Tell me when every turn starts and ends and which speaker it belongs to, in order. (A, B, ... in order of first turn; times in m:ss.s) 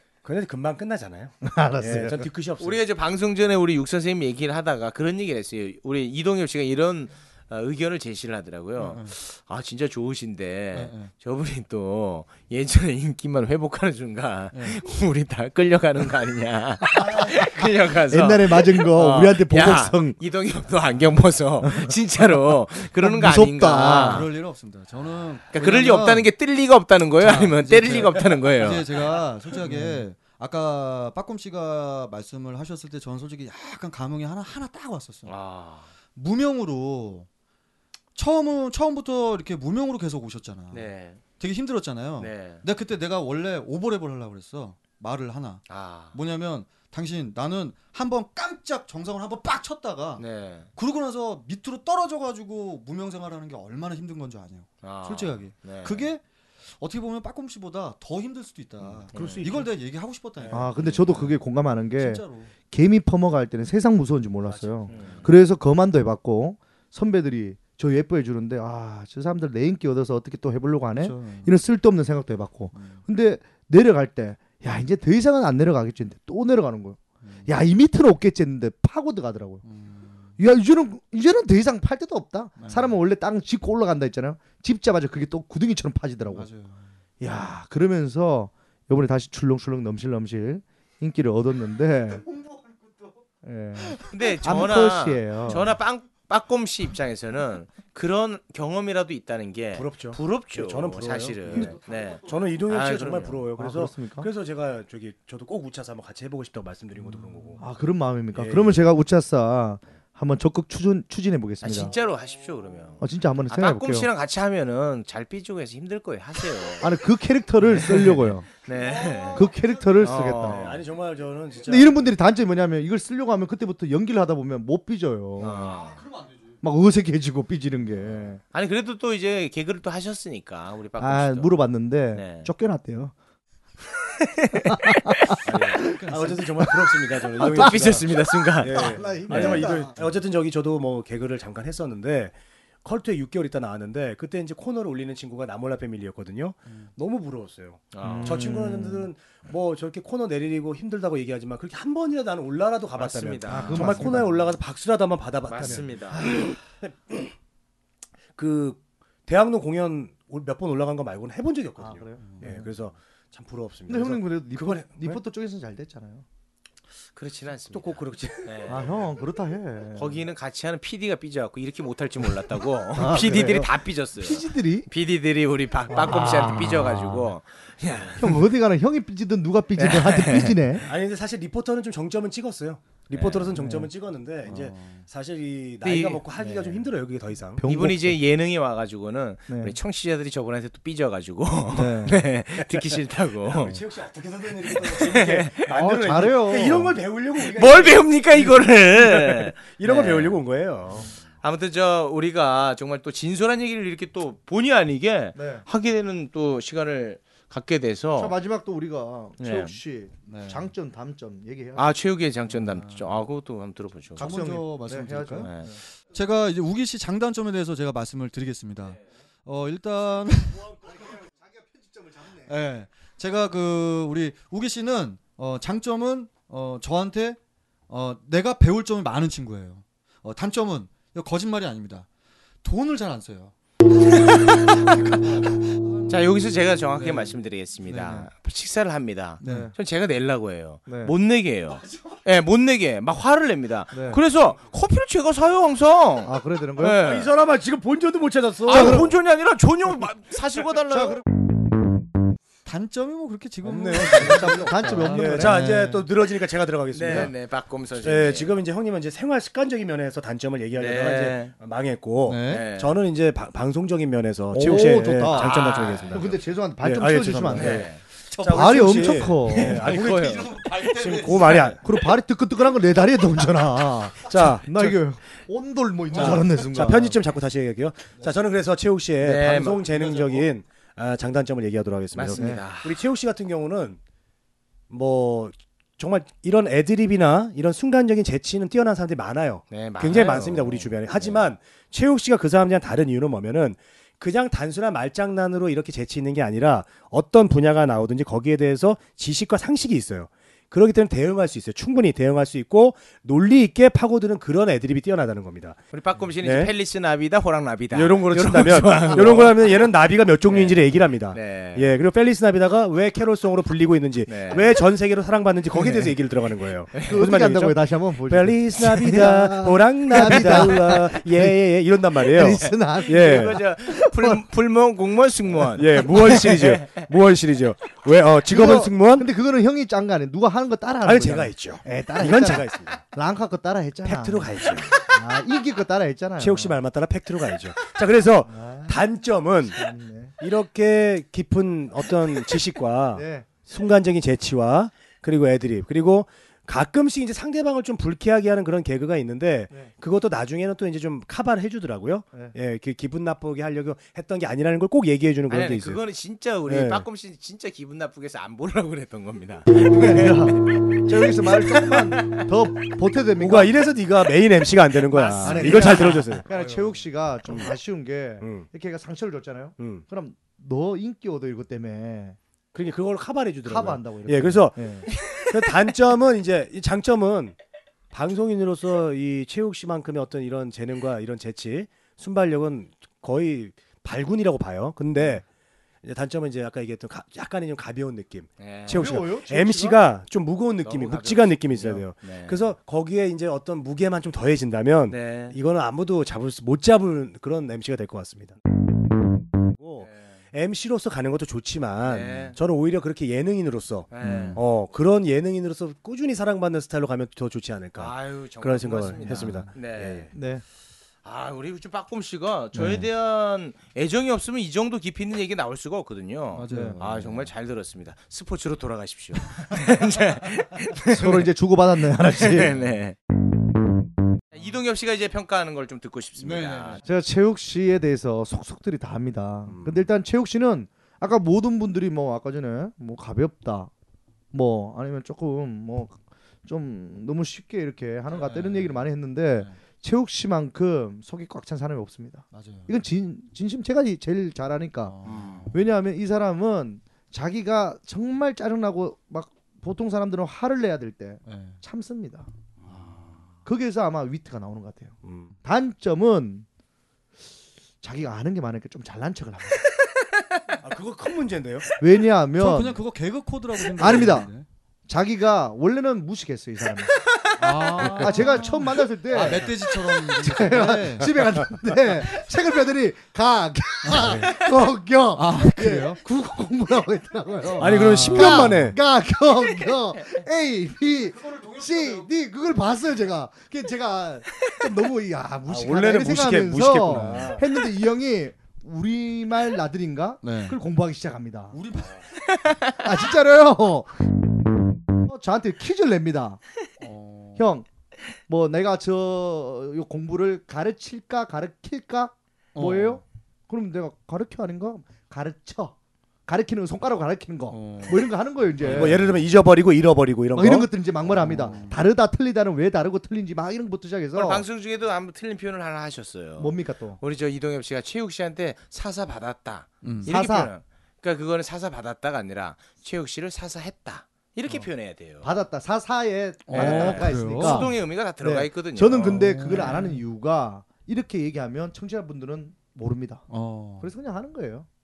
0:00.2-0:02.8 A
0:01.4-0:02.3 B
0:02.6-0:24.3 C
0:08.8-0:09.1 D
0:10.7-0:11.1 D
0:14.5-0:14.8 D
0:18.1-0:20.2 B
0:21.6-0:21.9 B
0:23.0-0:24.3 B
0:23.8-0:26.3 D
0:25.5-0:29.1 C
0:27.2-0:35.3 D
0:29.6-0:30.0 B
0:35.2-0:35.9 C
0:36.1-0:37.3 D
0:38.1-0:40.9 D
0:40.7-0:41.2 C
0:41.4-0:50.2 D
0:42.2-0:42.6 C
0:45.7-0:46.2 C
0:50.2-0:50.7 C
0:50.7-0:56.2 D
0:54.8-0:56.1 C
0:56.8-1:01.3 D
0:59.1-0:59.7 C
1:00.5-1:19.6 B
1:02.0-1:02.5 D
1:04.5-1:05.2 A
1:04.9-1:05.3 C
1:11.0-1:11.5 D
1:12.7-1:13.0 D
1:17.2-1:17.5 D
1:19.6-1:20.3 D
1:20.4-1:26.5 B
1:22.6-1:23.0 D
1:26.3-1:26.9 D
1:27.2-1:32.2 B
1:32.3-1:32.8 D
1:33.4-1:35.7 B
1:34.1-1:43.4 C
1:39.7-1:47.6 A
1:41.6-1:42.3 D
1:43.6-1:44.3 B
1:47.6-1:51.9 B
1:48.3-1:48.8 A
1:51.6-1:56.9 C
1:53.0-1:54.1 B
1:56.8-1:58.5 B
1:57.8-1:59.5 C
1:58.8-1:59.8 D
1:59.3-2:00.8 B
2:00.0-2:00.8 C
2:00.3-2:02.0 A
2:01.6-2:05.6 B
2:05.4-2:06.0 C
2:05.5-2:06.5 D
2:06.6-2:08.4 B
2:08.5-2:11.5 C
2:11.0-2:13.1 B
2:12.1-2:12.5 C
2:14.0-2:15.4 C
2:14.6-2:16.0 B
2:15.4-2:37.3 A
2:15.8-2:16.4 D
2:16.6-2:16.8 B
2:17.4-2:19.5 C
2:17.4-2:17.8 B
2:18.6-2:19.9 B
2:19.3-2:19.9 D
2:27.9-2:28.5 C
2:28.0-2:29.1 B
2:33.0-2:34.1 C
2:33.5-2:34.5 B
2:35.5-2:36.3 C
2:35.6-2:36.4 B
2:38.4-2:45.2 A
2:41.8-2:42.6 B
2:42.2-2:42.7 D
2:43.9-2:46.2 B
2:47.2-2:48.9 C
2:47.7-2:48.5 A
2:48.7-2:50.2 B
2:50.0-2:58.3 C
2:52.9-2:54.9 B
2:55.9-2:57.3 B
2:58.2-3:00.9 B
2:59.8-3:00.6 C
3:00.8-3:07.6 A
3:03.1-3:03.5 C
3:03.6-3:03.9 B
3:04.4-3:05.0 D
3:05.8-3:06.2 C
3:07.6-3:08.2 B
3:07.6-3:13.8 C
3:09.5-3:09.8 B
3:11.7-3:12.3 B
3:13.4-3:21.1 A
3:14.8-3:15.7 C
3:15.7-3:17.0 B
3:17.4-3:20.4 C
3:21.4-3:28.3 C
3:25.3-3:25.6 B
3:28.2-3:31.9 B
3:29.4-3:29.8 C
3:30.3-3:30.6 D
3:31.8-3:34.3 C
3:32.5-3:33.1 D
3:34.2-3:35.8 B
3:34.2-3:41.2 D
3:35.4-3:35.7 C
3:41.3-3:42.3 B
3:42.4-3:52.1 D
3:52.6-3:53.5 D
3:54.0-3:55.4 C
3:54.9-3:56.4 D
3:56.1-4:07.3 C
3:57.0-3:57.3 D
3:57.9-3:58.3 D
3:59.4-3:59.7 D
3:59.4-3:59.7 B
4:00.9-4:01.1 B
4:03.9-4:04.2 B
4:06.2-4:07.0 B
4:07.0-4:09.1 A
4:08.6-4:11.2 C
4:08.7-4:09.1 B
4:10.9-4:11.2 B
4:12.6-4:16.0 D
4:13.6-4:17.3 A
4:14.1-4:15.7 B
4:16.9-4:18.5 C
4:18.0-4:31.8 A
4:20.8-4:21.5 C
4:22.2-4:22.7 D
4:22.5-4:23.0 C
4:24.5-4:27.9 B
4:25.3-4:26.2 C
4:27.6-4:28.0 C
4:28.3-4:31.8 D
4:28.4-4:29.8 B
4:29.5-4:31.0 C
4:31.8-4:37.2 B
4:34.2-4:35.0 A
4:36.1-4:44.0 A
4:39.2-4:39.8 C
4:39.8-4:40.5 D
4:42.1-4:42.9 C
4:42.3-4:42.6 B
4:44.9-5:05.8 A
4:49.7-4:51.4 C
5:05.9-5:09.7 C
5:06.4-5:06.7 A
5:07.9-5:23.6 A
5:10.5-5:10.8 C
5:11.3-5:11.9 C
5:14.3-5:14.7 C
5:16.9-5:17.2 C
5:17.0-5:21.6 B
5:20.2-5:20.7 C
5:22.2-5:24.4 B
5:22.6-5:27.0 C
5:25.7-5:29.3 A
5:28.5-5:36.8 B
5:31.0-5:33.0 A
5:34.0-5:34.9 A
5:36.4-5:39.8 A
5:38.5-5:39.0 B
5:39.8-5:40.3 B
5:40.4-5:56.0 A
5:43.1-5:43.5 B
5:55.5-6:01.1 C
5:56.7-5:57.0 A
5:59.7-6:03.9 B
6:01.7-6:02.5 C
6:03.4-6:06.4 A
6:05.1-6:06.3 C
6:05.3-6:12.4 B
6:06.5-6:07.0 D
6:08.4-6:08.7 A
6:09.8-6:10.0 A
6:12.7-6:17.6 A
6:13.6-6:15.1 B
6:15.2-6:15.5 C
6:18.1-6:25.4 A
6:26.0-6:38.6 A
6:28.6-6:29.1 C
6:28.9-6:30.0 B
6:30.8-6:32.6 C
6:35.1-6:35.6 C
6:39.8-6:50.3 A
6:40.0-6:40.3 C
6:42.0-6:42.6 C
6:44.1-6:44.6 C
6:44.2-6:44.6 D
6:48.0-6:50.3 C
6:49.2-6:49.7 D
6:50.3-6:50.6 B
6:51.2-7:01.5 C
6:52.7-6:53.0 B
6:56.5-6:57.4 D
6:56.7-6:57.0 B
7:01.0-7:02.7 B
7:02.2-7:03.2 C
7:04.5-7:07.0 C
7:06.4-7:07.0 D
7:07.0-7:13.9 B
7:09.7-7:10.0 A
7:14.5-7:32.5 B
7:18.3-7:19.0 D
7:22.5-7:22.9 D
7:25.0-7:25.8 D
7:25.3-7:25.6 A
7:31.4-7:31.8 D
7:32.8-7:33.4 A
7:32.9-7:33.4 D
7:33.6-7:36.6 B
7:35.2-7:35.5 A
7:38.0-7:39.8 B
7:40.2-7:40.6 C
7:40.8-7:41.8 A
7:42.0-7:43.0 B
7:42.6-7:44.6 D
7:44.0-7:44.5 B
7:45.1-7:47.1 B
7:47.3-7:48.2 C
7:47.6-7:51.3 D
7:48.0-8:11.8 B
7:54.0-7:54.6 D
7:55.3-7:56.2 D
7:57.8-7:58.8 D
7:57.8-7:59.0 A
8:01.2-8:02.3 D
8:05.7-8:07.6 A
8:07.2-8:07.5 D
8:10.4-8:10.8 D
8:11.7-8:12.2 D
8:12.6-8:12.9 C
8:13.0-8:14.2 B
8:15.2-8:16.6 B
8:17.0-8:17.7 D
8:17.6-8:17.9 B
8:18.5-8:25.9 B
8:22.7-8:23.2 D
8:26.5-8:29.3 B
8:27.7-8:28.2 D
8:28.8-8:29.3 D
8:28.8-8:30.9 A
8:30.5-8:34.6 B
8:31.3-8:32.0 D
8:34.3-8:45.5 C
8:36.6-8:37.2 B
8:40.0-8:40.3 D
8:40.2-8:40.7 B
8:45.4-8:53.5 B
8:46.7-8:47.9 D
8:46.7-8:49.9 C
8:49.2-8:50.2 D
8:53.5-8:54.1 D
8:54.0-8:54.9 B